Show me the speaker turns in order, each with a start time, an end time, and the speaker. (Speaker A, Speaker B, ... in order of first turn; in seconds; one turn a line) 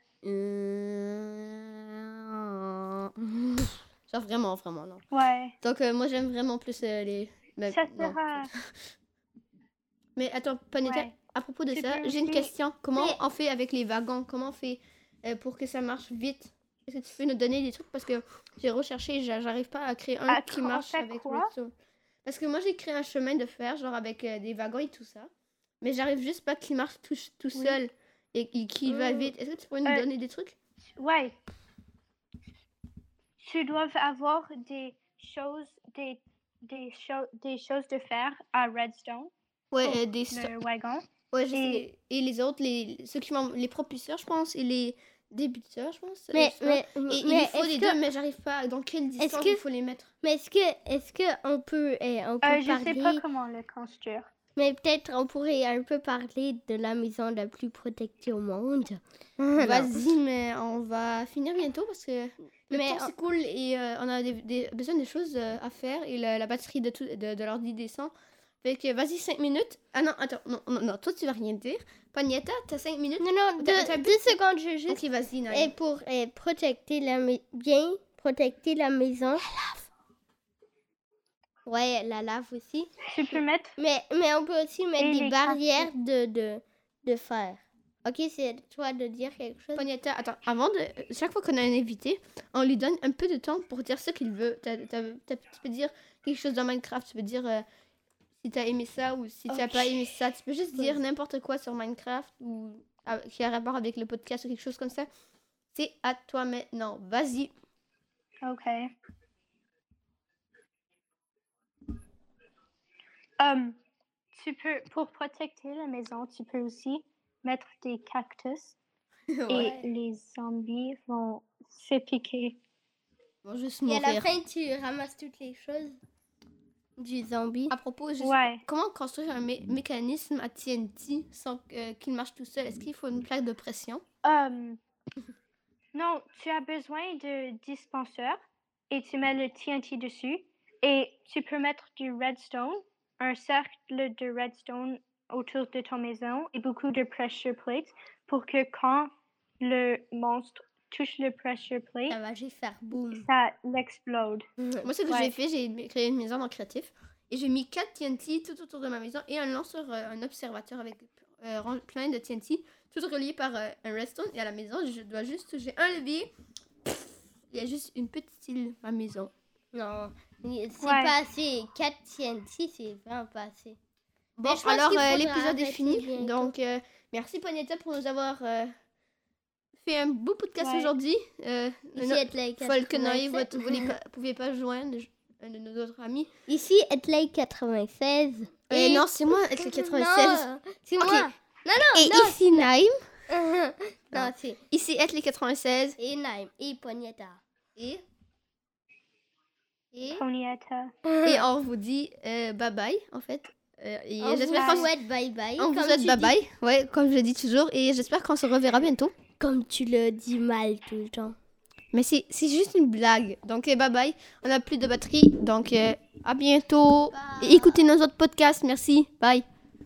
Speaker A: 0.2-5.0
Speaker B: 5.1-5.5
Speaker A: 5.6-8.7
Speaker B: 7.7-8.5
Speaker A: 10.2-21.7
Speaker B: 10.8-11.1
Speaker B: 11.7-13.2
Speaker B: 20.3-21.5
Speaker A: 22.2-25.3
Speaker A: 25.8-30.6
Speaker B: 30.9-31.4
Speaker B: 33.4-39.3
Speaker A: 39.7-40.5
Speaker B: 39.8-41.8
Speaker A: 41.3-50.1
Speaker C: 46.3-48.0
Speaker C: 49.2-49.6
Speaker C: 50.2-53.2
Speaker B: 52.4-54.3
Speaker C: 54.5-60.1
Speaker A: 59.6-74.4
Speaker C: 62.7-63.1
Speaker C: 73.2-79.5
Speaker A: 74.9-75.7
Speaker A: 79.5-79.8
Speaker C: 81.6-83.0
Speaker B: 83.1-83.8
Speaker C: 83.8-89.9
Speaker B: 85.0-85.9
Speaker A: 89.7-97.6
Speaker A: 98.4-105.1
Speaker C: 99.5-100.0
Speaker A: 105.7-107.5
Speaker B: 108.4-108.9
Speaker B: 113.4-113.8
Speaker B: 114.3-118.8
Speaker A: 119.3-119.9
Speaker B: 119.5-122.6
Speaker A: 123.4-124.3
Speaker C: 123.8-126.0
Speaker C: 127.0-127.7
Speaker A: 127.7-134.0
Speaker B: 128.2-128.6
Speaker B: 134.2-134.8
Speaker B: 135.9-152.2
Speaker C: 152.1-153.2
Speaker B: 153.1-154.4
Speaker C: 154.6-154.9
Speaker A: 154.8-166.3
Speaker B: 155.1-155.3
Speaker A: 166.8-169.3
Speaker C: 169.7-173.8
Speaker B: 170.8-171.1
Speaker A: 174.4-178.7
Speaker C: 174.4-176.5
Speaker A: 179.8-186.3
Speaker B: 180.6-180.9
Speaker C: 181.9-183.9
Speaker C: 186.5-192.7
Speaker A: 188.7-190.5
Speaker A: 191.0-191.3
Speaker A: 191.9-193.0
Speaker C: 193.3-194.6
Speaker A: 194.1-196.0
Speaker C: 196.0-197.4
Speaker A: 197.8-198.0
Speaker A: 199.9-200.2
Speaker B: 200.0-200.9
Speaker C: 201.0-201.4
Speaker A: 201.2-204.9
Speaker C: 204.2-206.3
Speaker B: 204.5-204.9
Speaker A: 205.6-209.1
Speaker C: 209.4-211.3
Speaker A: 211.9-219.4
Speaker C: 217.1-217.9